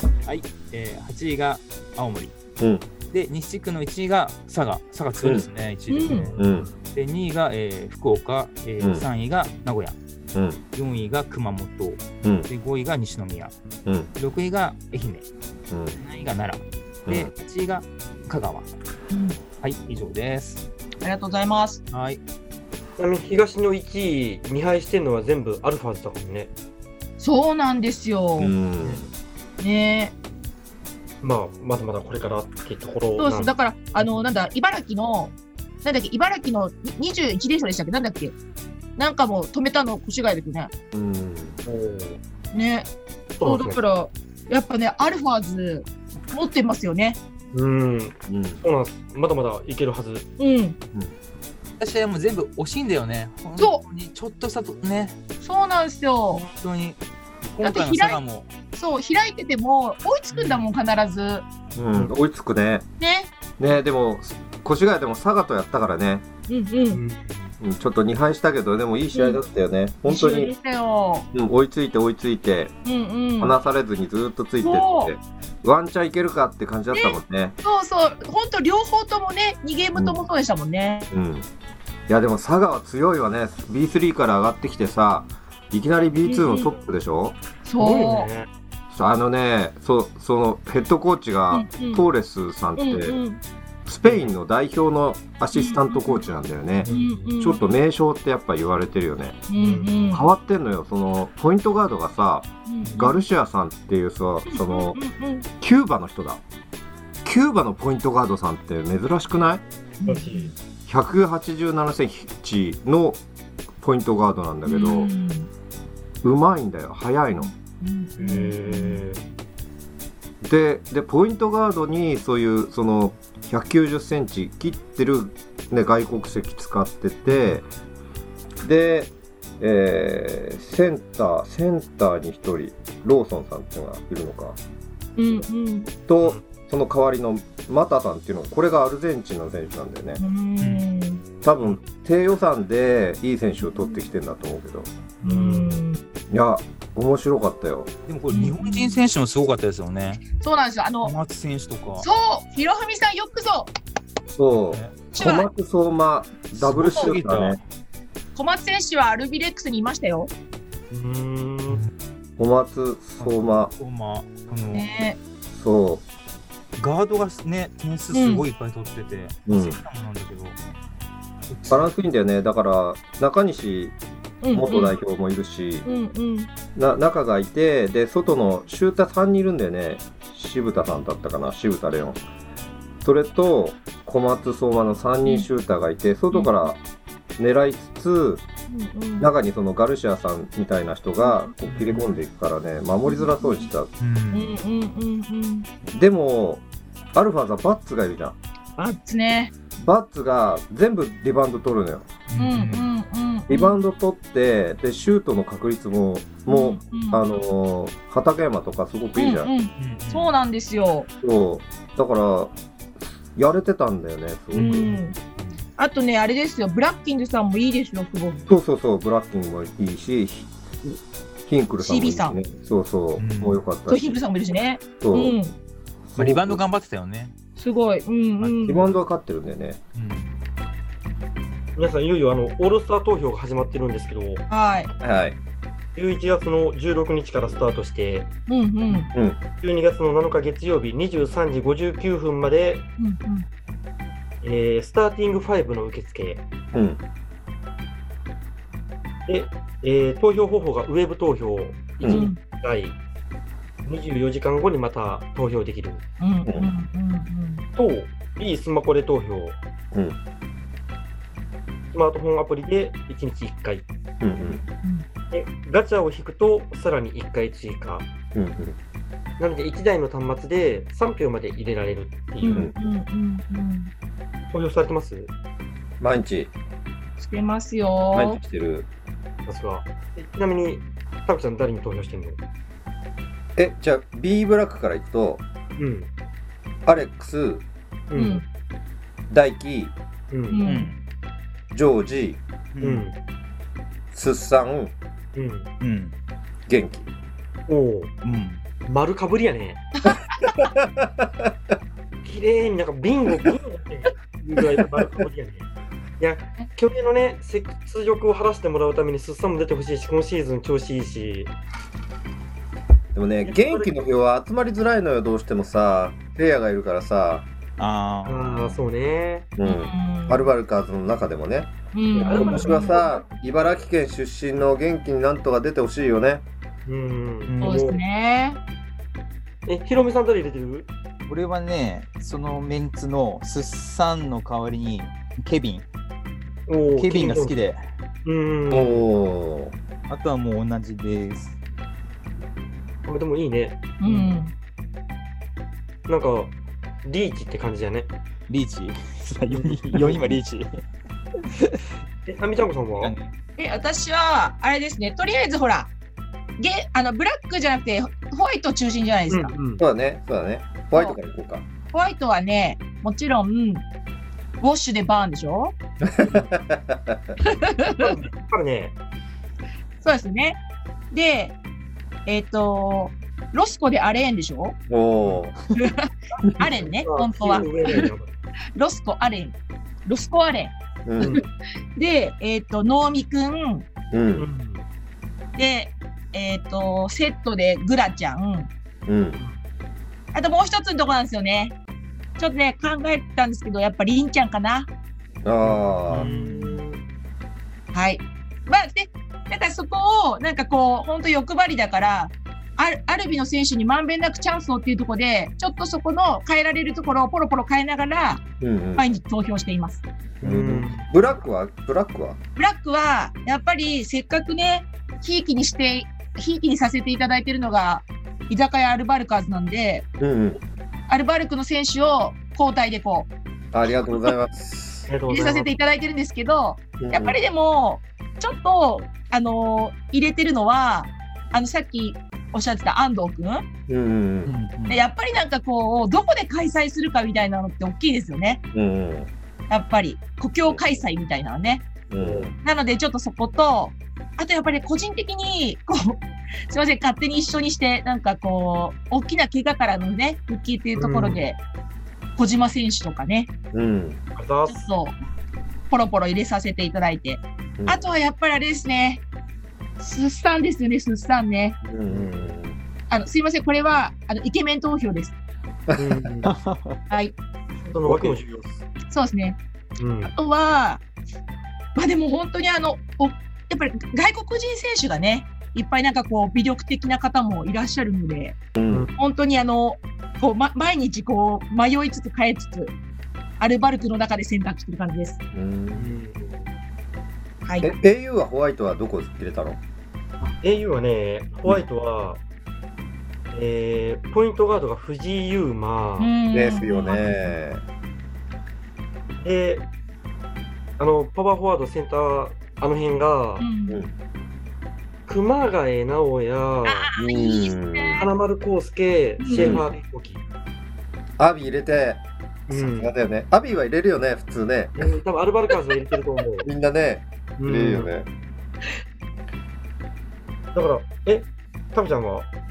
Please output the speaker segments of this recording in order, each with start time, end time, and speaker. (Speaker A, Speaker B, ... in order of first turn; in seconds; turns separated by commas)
Speaker A: 0.2-2.3, Speaker B: 2.6-2.9, Speaker A: 3.1-6.4, Speaker C: 5.9-6.3, Speaker D: 6.1-6.7, Speaker B: 6.4-6.7, Speaker A: 6.9-10.0, Speaker B: 8.8-9.1, Speaker B: 10.3-10.6, Speaker A: 10.7-13.5, Speaker B: 12.2-12.5, Speaker A: 14.2-15.2, Speaker B: 15.7-16.0, Speaker A: 16.0-18.7, Speaker B: 17.1-17.3, Speaker C: 19.1-19.4, Speaker A: 19.6-20.6, Speaker C: 21.0-21.8, Speaker A: 21.9-22.2, Speaker D: 23.0-26.5, Speaker C: 27.2-28.5, Speaker B: 28.4-29.1, Speaker C: 29.6-30.1, Speaker D: 31.2-34.1, Speaker C: 33.2-38.4, Speaker C: 39.0-40.7, Speaker B: 40.9-41.6, Speaker D: 41.7-42.2, Speaker C: 42.5-42.9, Speaker D: 43.4-43.8, Speaker C: 43.4-47.2, Speaker D: 47.5-50.3, Speaker B: 48.3-48.6, Speaker C: 50.4-50.8, Speaker A: 51.8-55.2, Speaker C: 53.6-53.8, Speaker C: 55.4-56.4, Speaker A: 56.3-57.0, Speaker A: 57.5-58.5, Speaker C: 57.6-58.2, Speaker C: 58.7-61.5, Speaker D: 60.3-60.6, Speaker B: 61.8-62.9, Speaker C: 63.0-63.3, Speaker B: 63.6-66.2, Speaker C: 66.5-67.0, Speaker D: 66.9-67.5, Speaker B: 67.6-70.5, Speaker C: 69.1-69.5, Speaker C: 70.1-71.3, Speaker B: 71.3-72.7, Speaker C: 72.8-73.5, Speaker B: 73.4-77.6, Speaker C: 74.6-75.1, Speaker C: 76.9-81.1, Speaker B: 80.0-80.2, Speaker B: 81.1-81.5, Speaker B: 82.1-87.4, Speaker C: 86.2-86.8, Speaker C: 87.7-88.3, Speaker D: 87.8-88.5, Speaker B: 88.9-93.2, Speaker C: 91.5-92.0, Speaker C: 92.8-93.4, Speaker B: 93.9-99.4, Speaker D: 94.0-94.3, Speaker C: 95.5-96.3, Speaker D: 96.8-97.4, Speaker C: 96.8-97.6, Speaker C: 99.5-100.3, Speaker D: 99.6-100.2, Speaker B: 100.1-105.0, Speaker C: 102.7-103.2, Speaker D: 102.9-103.1, Speaker C: 104.5-105.5, Speaker B: 105.6-106.4, Speaker B: 107.2-109.6, Speaker C: 110.0-110.5, Speaker D: 110.0-110.5, Speaker B: 110.9-113.2, Speaker B: 113.8-115.1, Speaker C: 114.7-115.5, Speaker B: 116.2-117.5, Speaker C: 117.4-119.0, Speaker D: 118.2-119.2, Speaker B: 120.4-127.6, Speaker D: 127.3-127.7, Speaker B: 128.6-134.6, Speaker C: 135.2-135.9, Speaker B: 136.1-140.2, Speaker C: 140.2-141.2, Speaker A: 140.6-140.9, Speaker B: 141.4-144.9, Speaker C: 143.7-144.0, Speaker C: 145.2-146.0, Speaker D: 145.2-145.8, Speaker B: 146.3-147.9, Speaker A: 148.1-150.3, Speaker C: 148.3-149.0, Speaker C: 150.4-151.2, Speaker A: 151.0-152.1, Speaker C: 152.0-153.7, Speaker B: 154.3-157.6, Speaker A: 154.7-155.0, Speaker C: 155.1-155.5, Speaker A: 156.5-157.6, Speaker C: 158.3-160.3, Speaker D: 160.9-161.8, Speaker B: 162.4-163.7, Speaker A: 163.2-164.9, Speaker C: 164.7-165.2, Speaker B: 165.5-166.0, Speaker A: 166.8-170.6, Speaker C: 168.1-168.5, Speaker B: 169.5-169.8, Speaker A: 171.5-171.9, Speaker B: 171.7-174.0, Speaker C: 174.4-174.9, Speaker B: 174.5-175.9, Speaker C: 175.8-176.5, Speaker B: 176.8-182.2, Speaker B: 183.0-186.8, Speaker C: 186.3-186.7, Speaker B: 187.4-188.4, Speaker C: 188.7-189.3, Speaker B: 189.2-193.9, Speaker C: 191.2-191.5, Speaker A: 191.7-192.1, Speaker C: 193.1-193.7, Speaker A: 194.0-194.6, Speaker C: 194.3-195.7, Speaker B: 195.9-196.6, Speaker B: 197.2-198.4, Speaker C: 198.8-199.5, Speaker B: 199.8-202.2, Speaker A: 202.3-202.9, Speaker C: 202.4-203.8, Speaker B: 203.5-209.5, Speaker C: 206.5-207.2, Speaker C: 209.2-211.1, Speaker A: 209.8-210.4, Speaker B: 211.2-212.6, Speaker B: 213.3-214.9, Speaker A: 214.5-215.5, Speaker C: 214.6-215.2, Speaker C: 215.8-218.5, Speaker B: 218.5-220.5, Speaker B: 221.5-224.2, Speaker C: 221.8-222.4, Speaker A: 223.2-223.6, Speaker C: 223.9-225.5, Speaker B: 225.0-225.4, Speaker A: 226.1-227.3, Speaker B: 226.2-226.6, Speaker C: 227.6-228.8, Speaker A: 228.4-228.9, Speaker B: 228.7-229.8, Speaker A: 229.9-230.3, Speaker D: 231.8-234.5, Speaker C: 234.5-234.9, Speaker B: 235.0-235.4, Speaker D: 235.9-238.3, Speaker C: 238.5-239.1, Speaker D: 239.6-242.9, Speaker C: 243.0-243.5, Speaker D: 244.4-246.4, Speaker B: 246.7-247.0, Speaker D: 249.3-253.0, Speaker B: 252.0-252.3, Speaker C: 252.1-252.4, Speaker D: 253.8-256.0, Speaker C: 256.2-257.6, Speaker D: 257.8-259.6, Speaker B: 259.9-260.2, Speaker D: 261.9-263.9, Speaker B: 264.2-264.6, Speaker D: 265.3-268.1, Speaker B: 268.3-268.8, Speaker D: 269.4-272.7, Speaker C: 272.4-273.9, Speaker B: 272.5-272.7, Speaker D: 274.5-275.3, Speaker B: 276.0-276.5, Speaker C: 277.2-278.4, Speaker B: 278.1-278.9, Speaker D: 279.5-282.4, Speaker B: 283.6-285.4, Speaker D: 285.8-286.1, Speaker B: 286.9-287.6, Speaker D: 288.1-288.4, Speaker C: 288.1-288.4, Speaker B: 289.3-289.9, Speaker D: 290.3-290.6, Speaker C: 290.5-290.9, Speaker A: 290.6-291.0, Speaker B: 291.7-292.4, Speaker A: 292.7-293.1, Speaker D: 292.8-293.1, Speaker B: 294.1-294.9, Speaker D: 295.4-295.7, Speaker A: 295.8-296.1, Speaker B: 296.7-297.1, Speaker D: 297.7-298.1, Speaker A: 298.2-298.6, Speaker D: 298.9-299.9, Speaker C: 300.0-300.4, Speaker B: 300.5-301.5, Speaker D: 302.2-305.7, Speaker D: 306.2-311.5, Speaker B: 313.1-317.5, Speaker D: 313.4-313.9, Speaker A: 317.8-318.8, Speaker D: 318.3-319.5, Speaker B: 319.6-326.4, Speaker C: 319.6-320.5, Speaker C: 321.9-323.0, Speaker D: 322.2-323.2, Speaker D: 326.9-328.0, Speaker A: 327.5-327.7, Speaker C: 327.6-328.6, Speaker D: 329.7-330.9, Speaker A: 331.3-335.9, Speaker D: 336.7-337.6, Speaker A: 336.9-337.8, Speaker D: 338.2-339.1, Speaker B: 338.7-339.7, Speaker A: 340.1-341.6, Speaker D: 343.1-344.3, Speaker C: 344.0-344.5, Speaker D: 346.1-348.1, Speaker A: 348.5-350.7, Speaker D: 349.5-350.4, Speaker D: 352.3-353.1, Speaker A: 352.9-353.3, Speaker C: 353.6-355.9, Speaker C: 356.6-359.5, Speaker D: 359.3-359.8, Speaker B: 359.8-361.6, Speaker C: 361.9-363.8, Speaker C: 364.6-365.8, Speaker B: 366.0-367.4, Speaker D: 366.2-366.5, Speaker C: 367.4-368.1, Speaker D: 368.0-369.0, Speaker C: 370.0-370.6, Speaker C: 371.1-371.6, Speaker C: 372.3-374.8, Speaker B: 374.9-375.6, Speaker C: 375.7-378.1, Speaker B: 376.6-376.8, Speaker D: 377.0-378.3, Speaker C: 378.8-381.4, Speaker B: 381.1-381.5, Speaker C: 382.0-383.9, Speaker B: 384.1-384.5, Speaker D: 384.4-384.8, Speaker C: 385.6-388.7, Speaker B: 389.1-389.4, Speaker C: 390.3-391.8, Speaker C: 392.4-394.9, Speaker B: 395.4-396.3, Speaker A: 395.7-396.8, Speaker D: 395.7-397.0, Speaker C: 397.9-408.4, Speaker B: 408.6-409.1, Speaker C: 409.0-410.0, Speaker D: 410.4-411.1, Speaker B: 410.4-412.4, Speaker C: 412.6-420.1, Speaker B: 420.2-420.6, Speaker C: 421.1-423.3, Speaker B: 423.7-425.1, Speaker D: 425.1-425.7, Speaker C: 425.3-433.6, Speaker B: 427.0-427.4, Speaker B: 433.9-434.5, Speaker A: 434.5-435.0, Speaker C: 434.9-438.6, Speaker B: 438.7-439.3, Speaker C: 439.7-441.9, Speaker B: 442.1-442.5, Speaker D: 442.2-442.5, Speaker C: 442.6-451.6, Speaker D: 451.0-451.4, Speaker C: 452.4-453.5, Speaker B: 453.7-454.2, Speaker D: 454.4-454.8, Speaker C: 454.7-455.1, Speaker C: 455.9-459.2, Speaker B: 457.8-458.1, Speaker C: 460.0-461.8, Speaker B: 461.8-462.8, Speaker D: 462.1-462.5, Speaker C: 463.1-465.4, Speaker D: 465.9-466.5, Speaker A: 466.5-467.0, Speaker C: 467.1-467.4, Speaker D: 467.9-468.8, Speaker A: 468.1-468.4, Speaker C: 469.1-469.6, Speaker D: 470.0-470.3, Speaker C: 470.3-471.0, Speaker C: 471.9-478.6, Speaker B: 478.8-479.1, Speaker C: 479.1-482.9, Speaker C: 483.6-485.4, Speaker B: 485.5-486.1, Speaker D: 485.9-486.7, Speaker C: 487.6-487.9, Speaker B: 487.8-489.8, Speaker D: 490.6-492.4, Speaker D: 493.5-496.3, Speaker C: 496.2-497.5, Speaker B: 496.5-497.8, Speaker D: 499.4-499.9, Speaker D: 501.0-503.7, Speaker C: 503.6-504.0, Speaker D: 505.3-507.1, Speaker C: 506.9-508.3, Speaker B: 507.2-508.3, Speaker D: 508.2-510.4, Speaker C: 509.4-509.8, Speaker B: 509.6-509.9, Speaker B: 511.4-515.1, Speaker D: 512.7-513.1, Speaker D: 515.0-516.7, Speaker B: 516.6-518.3, Speaker D: 517.6-518.1, Speaker D: 520.7-522.5